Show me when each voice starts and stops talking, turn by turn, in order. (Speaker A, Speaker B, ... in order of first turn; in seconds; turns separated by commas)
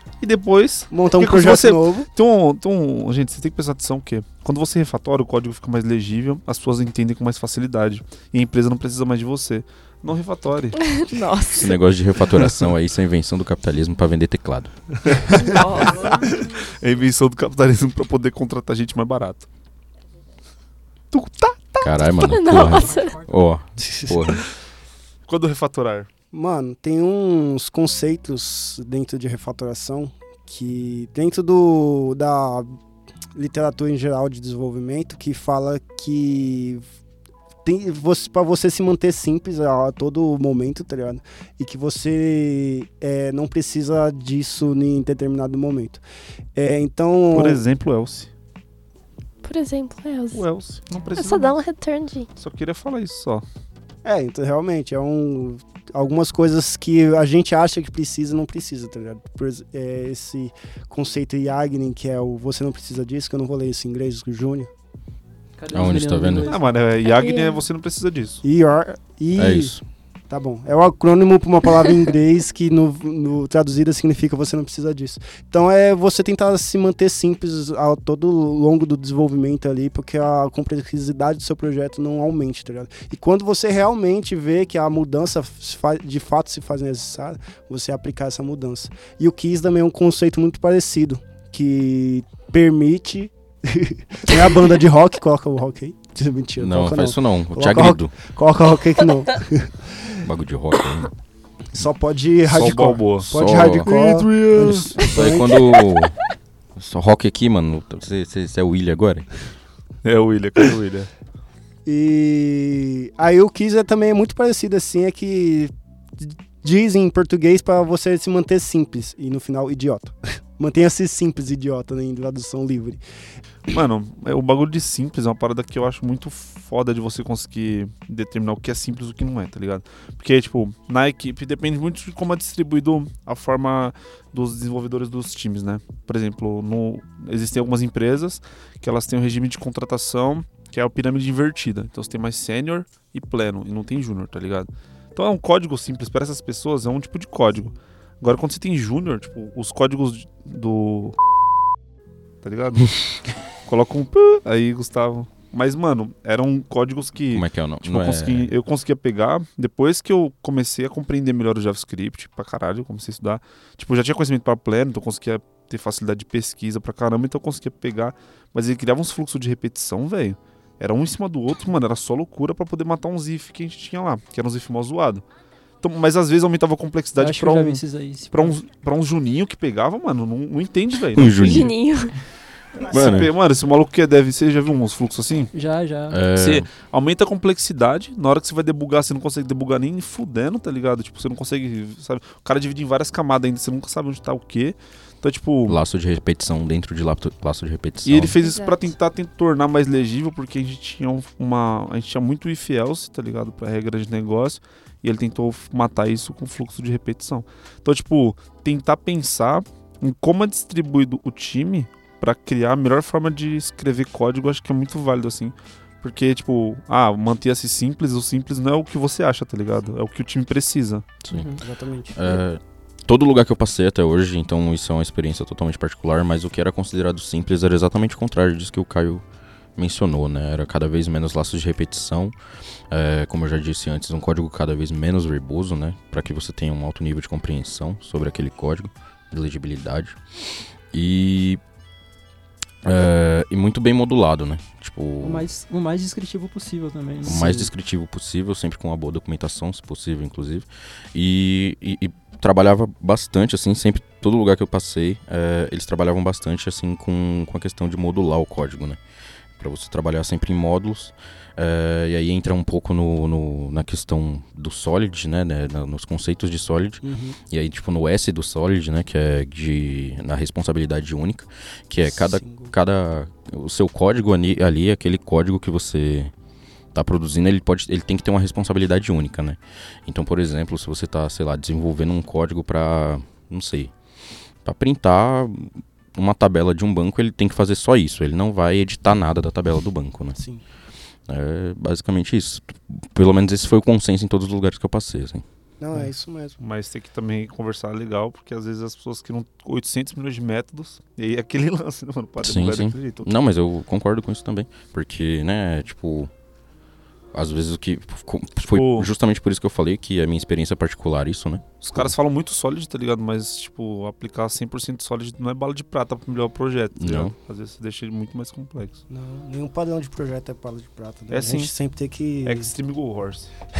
Speaker A: 0.2-10.8, Speaker B: 0.9-2.1, Speaker C: 10.8-11.7, Speaker D: 11.6-14.7, Speaker A: 15.0-19.5, Speaker C: 15.3-16.4, Speaker A: 21.1-21.9, Speaker D: 21.8-24.4, Speaker C: 22.2-23.2, Speaker A: 25.3-26.1, Speaker B: 26.3-32.7, Speaker B: 33.4-36.8, Speaker B: 37.6-46.0, Speaker B: 46.5-47.6, Speaker A: 47.3-48.3, Speaker C: 49.4-50.4, Speaker A: 50.3-51.5, Speaker C: 51.2-52.3, Speaker A: 52.4-53.4, Speaker B: 54.0-64.7, Speaker E: 65.6-66.6, Speaker D: 65.7-66.5, Speaker A: 66.5-68.4, Speaker C: 67.0-67.6, Speaker B: 68.4-69.7, Speaker D: 69.3-69.8, Speaker B: 70.3-100.2, Speaker D: 96.6-98.2, Speaker D: 100.2-101.1, Speaker B: 101.7-105.8, Speaker A: 102.5-105.0, Speaker D: 103.3-103.9, Speaker D: 104.5-106.1, Speaker D: 106.8-109.3, Speaker A: 110.0-111.1, Speaker B: 111.8-123.0, Speaker A: 123.7-151.2, Speaker A: 152.4-153.0, Speaker A: 153.6-175.2, Speaker D: 157.3-158.5, Speaker A: 175.8-181.6, Speaker E: 177.2-178.5, Speaker D: 181.1-181.7, Speaker C: 181.4-182.1, Speaker A: 182.8-185.5, Speaker D: 182.9-183.3, Speaker E: 185.5-186.2, Speaker D: 186.1-186.7, Speaker A: 186.3-195.8, Speaker D: 195.7-198.3, Speaker A: 198.0-221.0, Speaker C: 198.4-198.9, Speaker D: 221.2-221.6, Speaker E: 221.3-221.6, Speaker B: 221.6-222.4, Speaker D: 222.1-229.2, Speaker D: 229.8-232.3, Speaker D: 232.9-240.2, Speaker D: 240.9-241.6, Speaker D: 242.8-245.4, Speaker E: 245.2-247.7, Speaker D: 247.2-259.0, Speaker D: 259.6-276.3, Speaker B: 267.0-267.4, Speaker B: 272.0-272.7, Speaker D: 276.9-283.9, Speaker D: 284.6-290.4, Speaker B: 290.4-290.6, Speaker D: 291.3-295.4, Speaker B: 295.8-296.6, Speaker A: 296.6-303.3, Speaker D: 302.4-306.3, Speaker D: 307.3-312.1, Speaker A: 308.6-309.1, Speaker A: 311.8-319.0, Speaker D: 316.9-317.3, Speaker B: 319.1-322.7, Speaker A: 321.3-321.7, Speaker A: 322.4-323.5